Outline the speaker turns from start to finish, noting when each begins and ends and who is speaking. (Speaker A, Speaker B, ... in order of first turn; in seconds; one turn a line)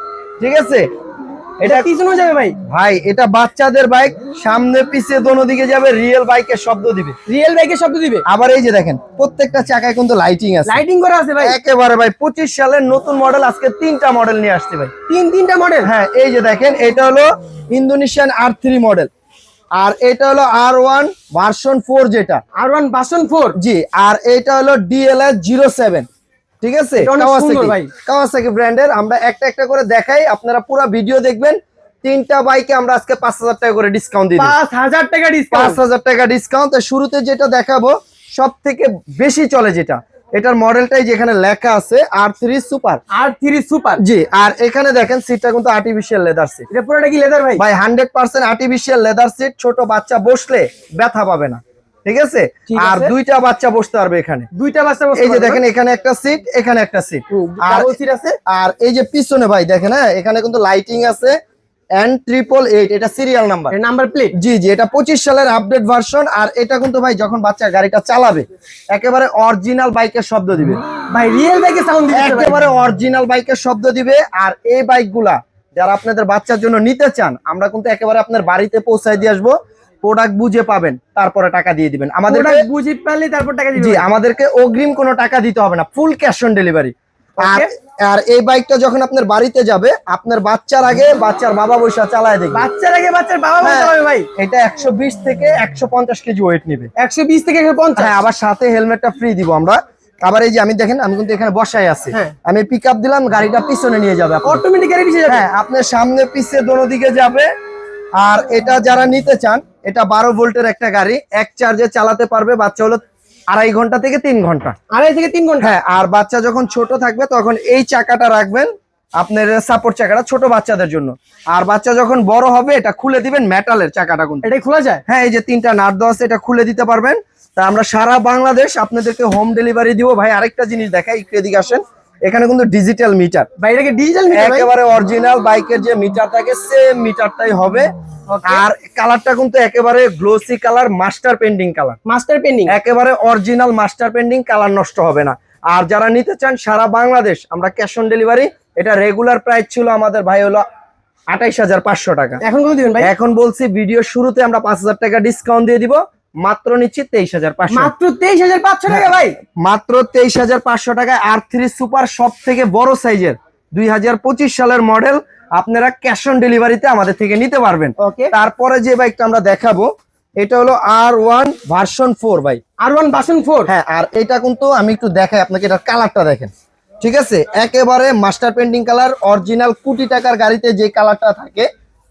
Speaker A: 0.4-0.9
Speaker A: 1.6-1.9
Speaker B: 1.6-2.6
Speaker A: 2.7-7.2
Speaker B: 7.3-8.2
Speaker A: 8.3-10.8
Speaker B: 10.7-11.6
Speaker A: 11.4-14.9
Speaker B: 15.1-15.9
Speaker A: 15.8-19.1
Speaker A: 19.8-22.4
Speaker B: 22.6-23.6
Speaker A: 23.6-26.1
Speaker A: 26.6-34.5
Speaker B: 27.0-27.9
Speaker B: 34.4-35.8
Speaker A: 35.5-43.0
Speaker B: 43.1-44.0
Speaker A: 44.0-46.7
Speaker B: 46.7-47.6
Speaker A: 47.6-54.5
Speaker B: 52.7-53.1
Speaker B: 54.5-55.6
Speaker A: 55.2-57.9
Speaker B: 57.3-58.4
Speaker A: 58.5-61.4
Speaker A: 62.0-63.8
Speaker B: 63.7-64.3
Speaker A: 64.3-70.8
Speaker B: 71.1-72.5
Speaker A: 72.1-82.7
Speaker B: 82.3-84.1
Speaker A: 83.8-92.7
Speaker B: 87.4-87.7
Speaker B: 92.5-94.3
Speaker A: 93.6-96.9
Speaker B: 97.0-98.2
Speaker A: 98.0-104.6
Speaker B: 104.4-105.4
Speaker A: 105.3-107.5
Speaker A: 108.2-114.8
Speaker B: 114.9-115.7
Speaker A: 115.6-124.5
Speaker B: 124.4-125.0
Speaker A: 125.1-133.5
Speaker B: 133.6-134.7
Speaker A: 134.3-137.9
Speaker B: 138.3-138.7
Speaker A: 138.4-142.0
Speaker B: 142.1-142.7
Speaker A: 142.7-150.6
Speaker A: 151.3-152.4
Speaker B: 152.4-153.1
Speaker A: 153.0-157.9
Speaker B: 157.7-159.4
Speaker A: 158.9-172.6
Speaker B: 168.0-168.3
Speaker B: 172.8-173.7
Speaker A: 173.7-181.7